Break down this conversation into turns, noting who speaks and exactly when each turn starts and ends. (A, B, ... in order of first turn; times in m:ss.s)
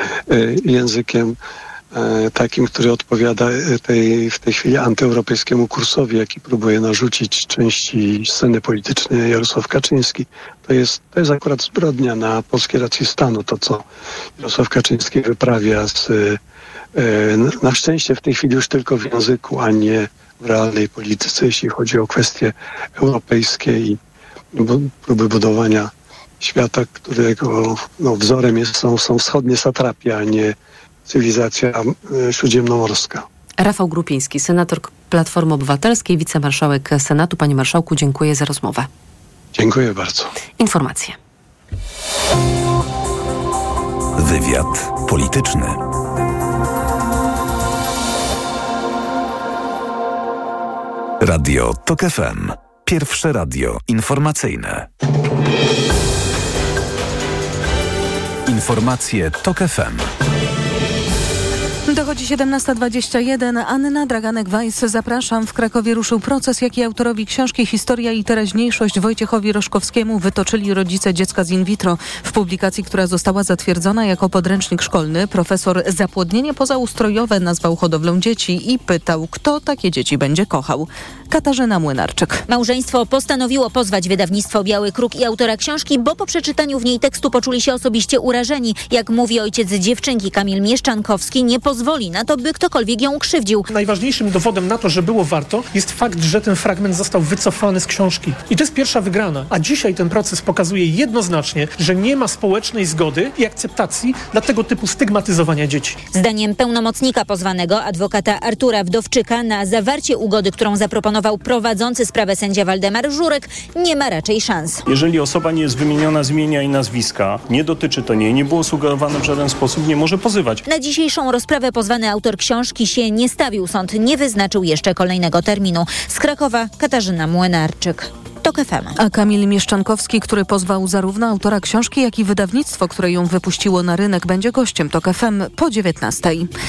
0:00.3-0:01.4 A
0:01.9-0:13.8 A
0:14.4-0:16.4 A
0:17.0-0:24.0 A
0:24.5-0:30.6 A
0:31.1-0:33.2 A
0:33.6-0:38.9 B
0:39.6-0:40.3 A
0:40.6-0:41.2 B
0:44.2-0:45.8 C
0:51.2-0:54.9 C
0:58.5-1:00.1 C
1:01.9-1:22.4 D
1:22.5-1:33.6 E
1:33.7-1:46.0 F
1:46.1-1:54.8 E
1:54.9-2:00.6 G
2:00.7-2:09.0 E
2:09.0-2:16.5 D